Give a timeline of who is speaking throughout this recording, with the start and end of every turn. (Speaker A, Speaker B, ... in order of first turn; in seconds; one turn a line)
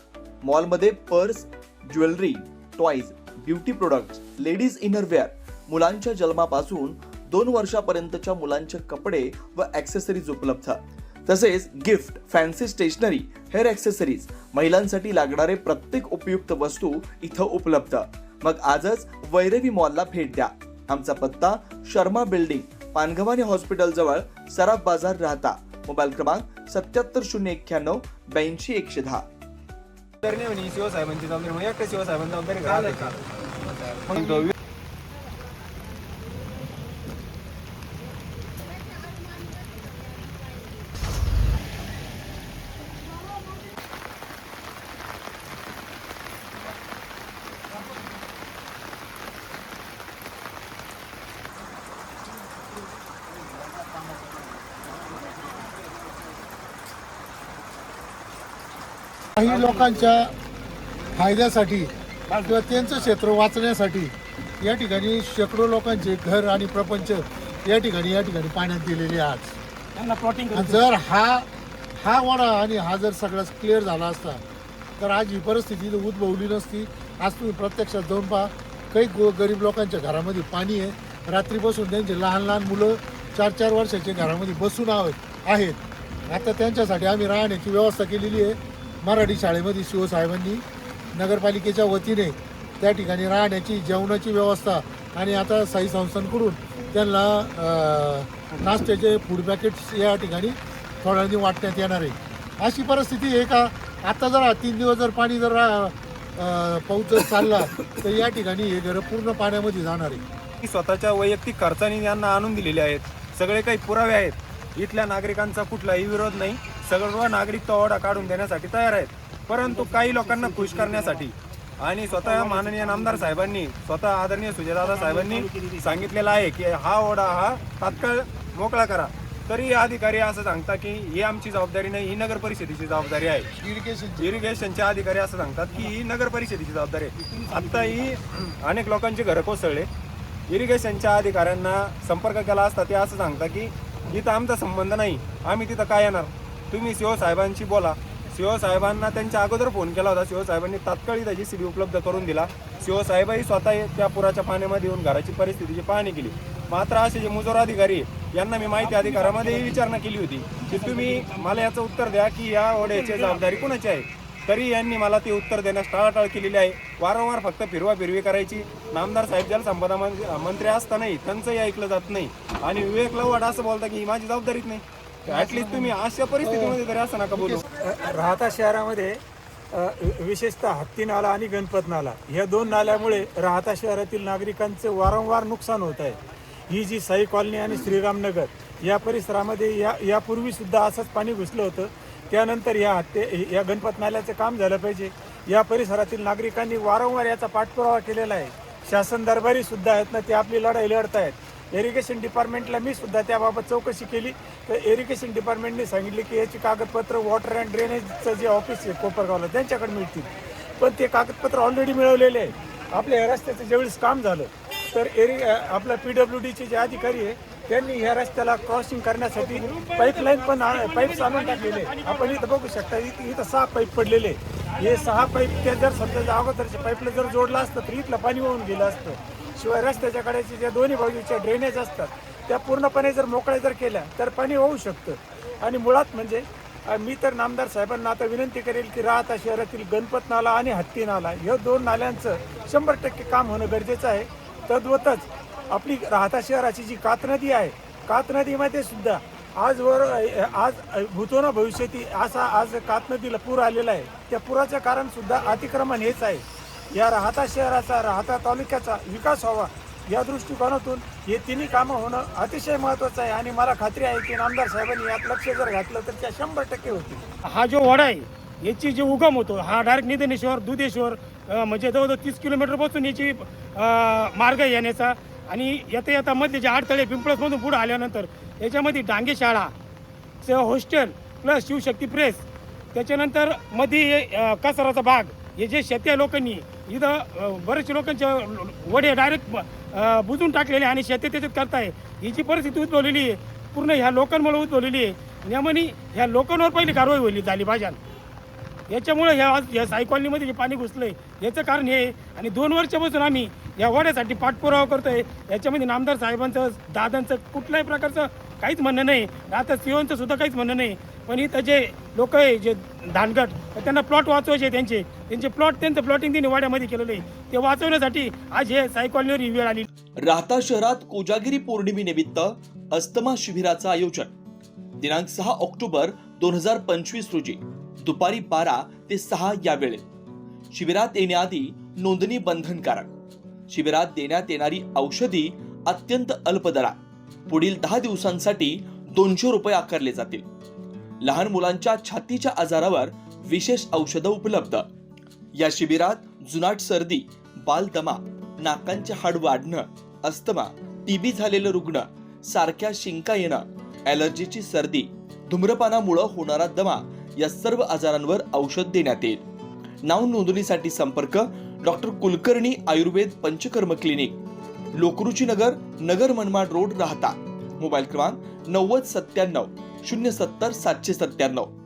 Speaker A: 0.4-29.2
Speaker B: 30.2-34.5
Speaker C: 59.4-60.3
Speaker C: 61.1-69.6
Speaker D: 62.3-62.5
Speaker D: 69.9-70.8
Speaker C: 70.5-71.5
Speaker C: 72.0-74.4
Speaker C: 75.0-90.6
Speaker C: 91.1-110.2
Speaker B: 110.6-133.5
Speaker D: 119.7-121.2
Speaker D: 122.1-123.2
Speaker D: 124.9-125.9
Speaker C: 133.6-134.3
Speaker B: 134.2-139.9
Speaker D: 137.3-137.9
Speaker B: 140.5-177.6
Speaker D: 158.8-159.8
Speaker D: 160.6-161.6
Speaker D: 162.9-163.4
Speaker E: 175.3-176.8
Speaker E: 177.3-179.2
Speaker E: 179.7-186.2
Speaker E: 186.7-267.2
Speaker D: 219.3-222.5
Speaker D: 267.4-279.7
Speaker D: 280.4-298.0
Speaker D: 298.9-319.9
Speaker A: 320.2-324.3
Speaker A: 325.0-330.0
Speaker A: 330.7-333.1
Speaker A: 333.7-340.4
Speaker A: 341.2-344.9
Speaker A: 345.6-359.4
Speaker A: 360.1-364.4
Speaker A: 365.0-371.7